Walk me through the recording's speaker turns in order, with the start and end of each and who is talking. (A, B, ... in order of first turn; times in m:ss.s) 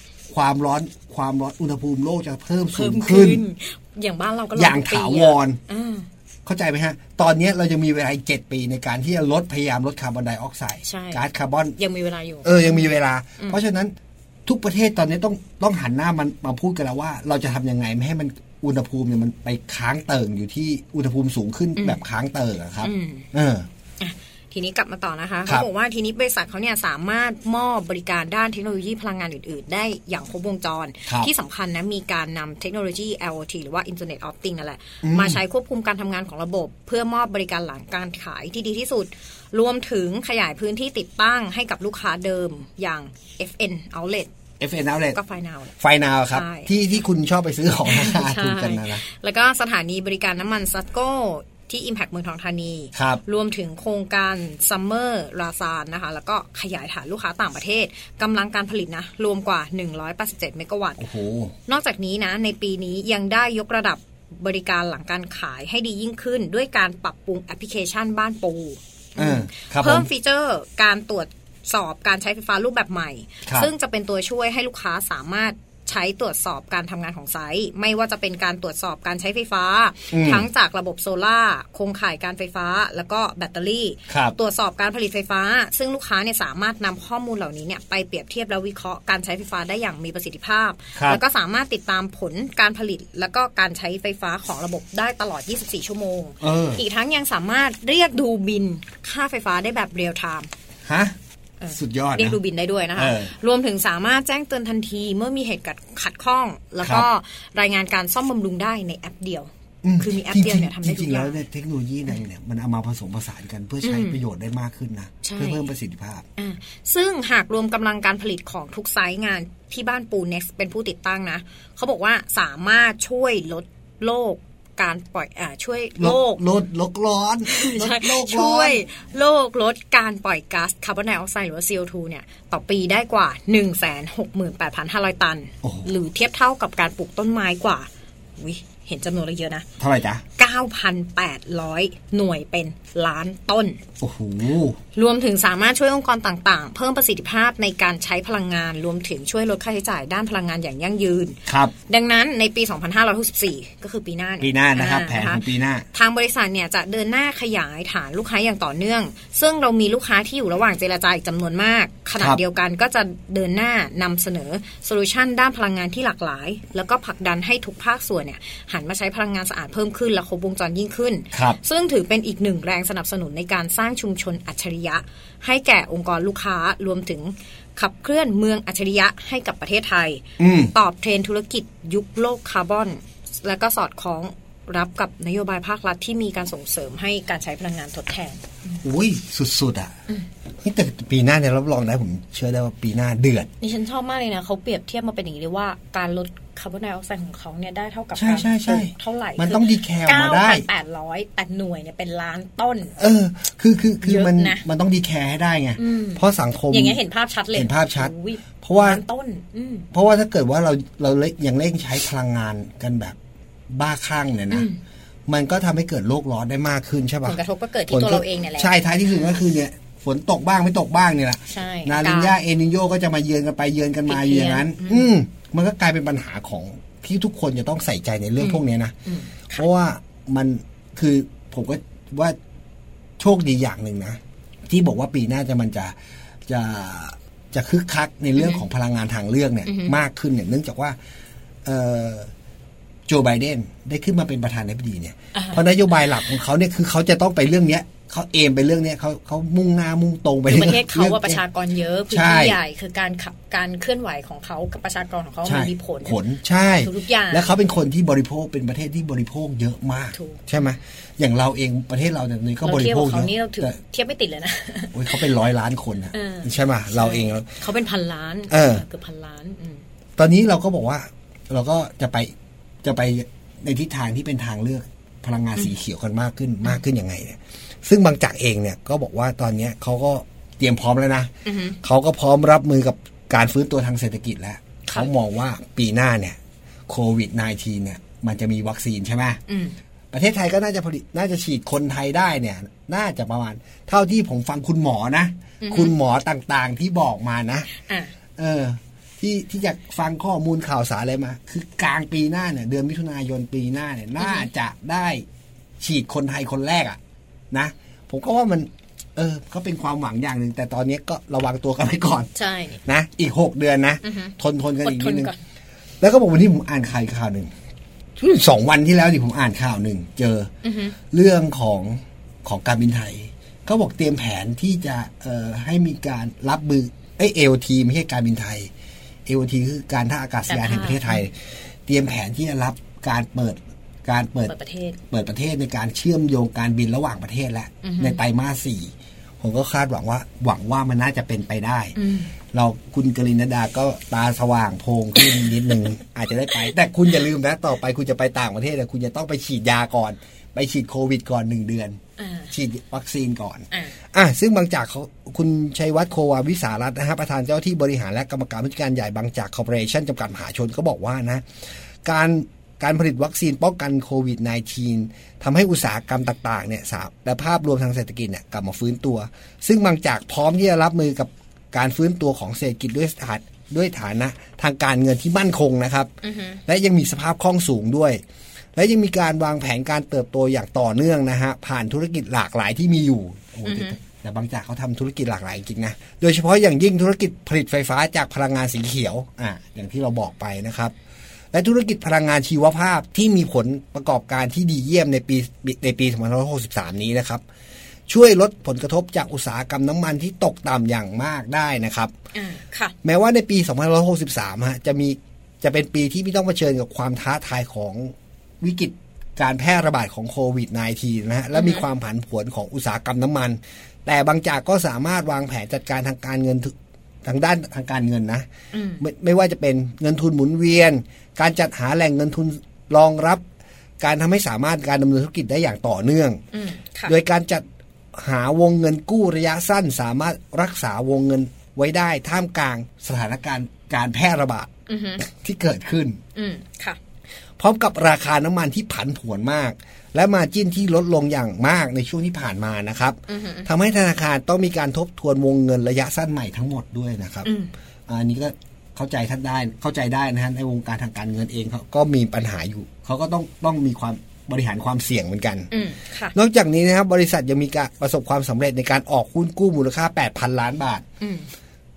0:00.3-0:03.4 A
0:02.7-0:06.1 B
0:04.6-0:05.6 A
0:06.4-0:11.8 A
0:10.8-0:11.2 B
0:11.8-0:13.6 B
0:12.4-0:14.0 A
0:14.5-0:23.7 A
0:22.8-0:23.3 B
0:24.0-0:44.3 B
0:31.1-0:31.3 A
0:35.0-0:35.4 A
0:44.6-0:45.2 A
0:45.1-0:45.7 B
0:45.8-0:49.0 A
0:46.3-0:46.8 B
0:47.9-1:01.1 B
0:53.0-0:53.2 A
1:01.0-1:01.5 A
1:01.7-1:40.5 B
1:09.2-1:10.1 A
1:13.5-1:13.7 A
1:20.1-1:20.5 A
1:24.1-1:24.4 A
1:31.0-1:31.2 A
1:36.4-1:36.8 A
1:40.9-1:41.2 A
1:41.6-1:51.4 B
1:41.7-1:42.4 A
1:43.0-1:43.3 A
1:46.8-1:47.1 A
1:49.8-1:56.3 A
1:53.8-1:54.2 B
1:55.2-1:55.6 B
1:56.4-2:06.4 B
2:06.0-2:08.8 A
2:07.5-2:19.7 B
2:15.6-2:15.9 A
2:19.8-2:20.2 A
2:20.4-2:23.8 B
2:24.0-2:24.8 A
2:25.0-3:08.8 B
2:31.5-2:31.7 A
2:34.4-2:35.9 A
2:51.3-2:51.6 A
3:00.4-3:00.7 A
3:08.8-3:10.0 A
3:10.6-3:13.5 A
3:13.6-3:23.0 B
3:18.2-3:20.7 A
3:23.0-3:27.0 A
3:24.0-3:24.6 B
3:25.8-3:29.9 B
3:27.5-3:29.0 A
3:29.9-3:33.2 A
3:33.7-3:34.7 A
3:34.5-3:34.8 B
3:35.3-3:49.0 A
3:37.2-3:39.4 B
3:41.5-3:42.4 B
3:44.1-3:45.1 B
3:48.4-3:49.6 B
3:49.5-3:52.4 A
3:53.2-3:56.0 A
3:56.5-4:01.0 A
3:58.4-3:58.6 B
3:59.7-4:00.0 B
4:01.6-4:02.3 A
4:03.1-4:11.4 A
4:05.3-4:05.6 B
4:10.5-4:16.2 B
4:12.1-4:12.6 A
4:15.4-4:23.8 A
4:16.8-4:17.5 B
4:20.1-4:20.5 B
4:22.6-4:25.3 B
4:24.9-4:27.5 A
4:26.1-4:29.8 B
4:28.5-4:28.8 A
4:30.2-4:49.4 A
4:41.4-4:41.8 B
4:49.5-4:49.8 B
4:50.1-4:57.7 A
4:55.6-4:55.9 B
4:57.8-4:58.1 B
4:58.4-5:05.2 A
5:04.2-5:04.5 B
5:05.8-5:07.0 A
5:07.5-5:12.3 A
5:12.4-5:12.8 B
5:12.8-5:15.3 A
5:14.0-5:15.4 B
5:16.0-5:17.5 A
5:18.2-5:20.5 A
5:20.6-5:21.0 B
5:21.0-5:28.7 A
5:29.3-5:31.4 A
5:30.5-5:31.3 B
5:31.9-5:34.5 A
5:34.5-5:35.0 B
5:35.1-5:42.0 A
5:37.8-5:38.2 B
5:42.0-5:42.3 B
5:42.5-6:01.5 A
5:52.2-5:52.5 B
6:02.0-6:16.1 A
6:16.2-6:16.6 B
6:16.7-6:18.2 A
6:18.8-6:30.9 A
6:23.6-6:24.0 B
6:31.5-6:37.4 A
6:38.1-6:42.1 A
6:42.3-6:43.0 B
6:43.0-6:58.5 A
6:51.5-6:51.8 B
6:58.7-6:59.0 B
6:59.0-7:03.4 A
7:04.0-7:06.4 A
7:06.5-7:07.1 B
7:07.1-7:16.2 A
7:14.9-7:15.2 B
7:16.4-7:17.0 B
7:17.6-7:27.5 A
7:23.3-7:23.7 B
7:27.4-7:27.7 B
7:28.1-7:35.7 A
7:35.7-7:36.4 B
7:36.4-7:41.0 A
7:41.2-7:41.5 B